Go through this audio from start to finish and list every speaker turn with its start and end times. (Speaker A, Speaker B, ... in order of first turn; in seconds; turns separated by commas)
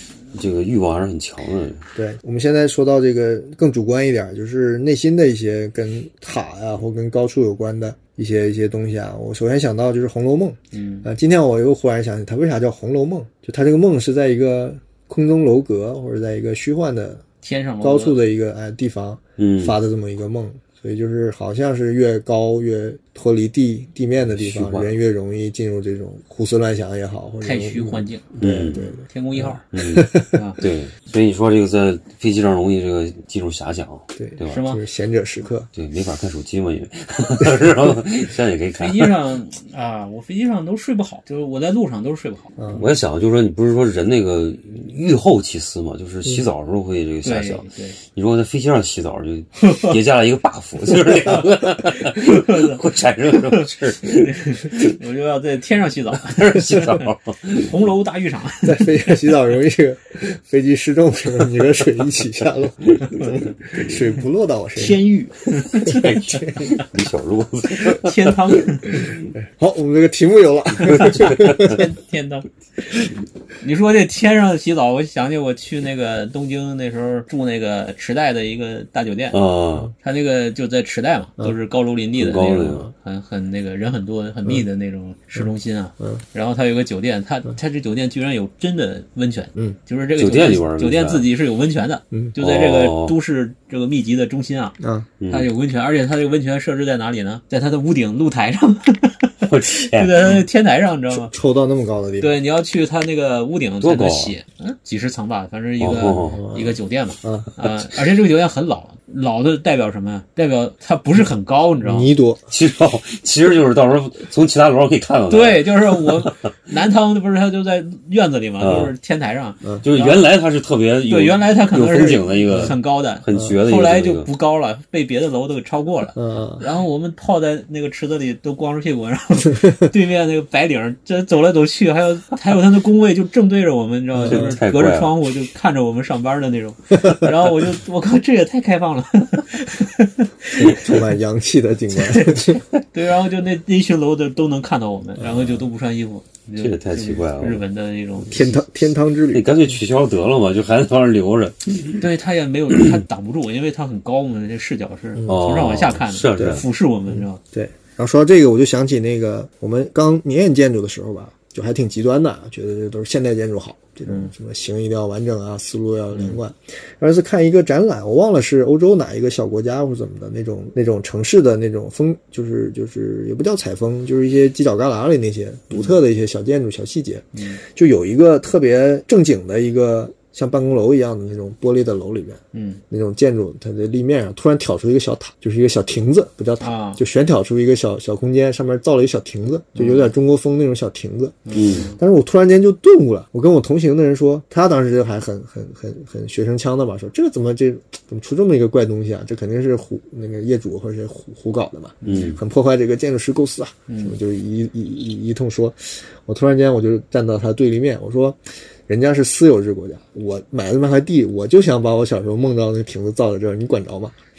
Speaker A: 0.3-1.8, Speaker B: 1.9-17.2, Speaker C: 10.7-11.1, Speaker C: 17.4-18.2, Speaker B: 17.8-30.4, Speaker A: 19.4-19.8, Speaker A: 24.2-24.9, Speaker C: 27.4-28.3, Speaker A: 28.4-28.8, Speaker C: 29.0-29.6, Speaker A: 29.7-34.6, Speaker C: 30.3-30.6, Speaker B: 34.2-35.7, Speaker C: 34.4-34.8, Speaker A: 35.7-39.1, Speaker C: 38.8-42.5, Speaker B: 42.6-42.9, Speaker A: 42.7-54.9, Speaker C: 47.2-48.0, Speaker C: 49.6-50.0, Speaker C: 51.8-58.9, Speaker A: 56.2-57.7, Speaker B: 58.6-65.0, Speaker C: 64.8-66.8, Speaker A: 65.7-68.4, Speaker C: 67.8-69.1, Speaker B: 69.3-71.8, Speaker A: 70.8-71.8, Speaker C: 70.9-72.5, Speaker C: 73.6-79.4, Speaker A: 79.3-79.9, Speaker C: 80.0-94.8, Speaker A: 82.2-82.9, Speaker A: 90.2-91.3, Speaker A: 92.4-93.2, Speaker B: 94.8-95.1, Speaker A: 95.2-95.5, Speaker C: 95.3-101.3, Speaker A: 99.5-100.4, Speaker B: 101.1-102.3, Speaker C: 102.2-112.1, Speaker A: 103.8-104.3, Speaker A: 105.8-106.4, Speaker B: 106.3-107.5, Speaker B: 111.8-112.4, Speaker A: 112.5-116.3, Speaker C: 115.3-120.3, Speaker A: 118.6-118.9, Speaker A: 119.8-124.3, Speaker C: 121.1-141.0, Speaker B: 123.3-123.6, Speaker B: 126.2-126.6, Speaker B: 134.1-134.6, Speaker A: 134.2-135.2, Speaker B: 140.6-142.6, Speaker C: 141.9-148.7, Speaker B: 145.2-145.6, Speaker A: 146.6-147.6, Speaker B: 148.2-149.5, Speaker A: 149.3-152.0, Speaker C: 152.0-157.4, Speaker B: 155.1-155.4, Speaker A: 155.3-156.7, Speaker B: 156.4-214.1, Speaker C: 164.1-164.3, Speaker C: 166.1-166.4, Speaker C: 177.3-177.6, Speaker C: 182.5-182.8, Speaker C: 186.6-187.0, Speaker C: 189.7-190.1, Speaker C: 191.4-192.0, Speaker A: 191.5-191.9, Speaker C: 202.0-202.4, Speaker A: 202.0-202.4, Speaker C: 203.9-204.2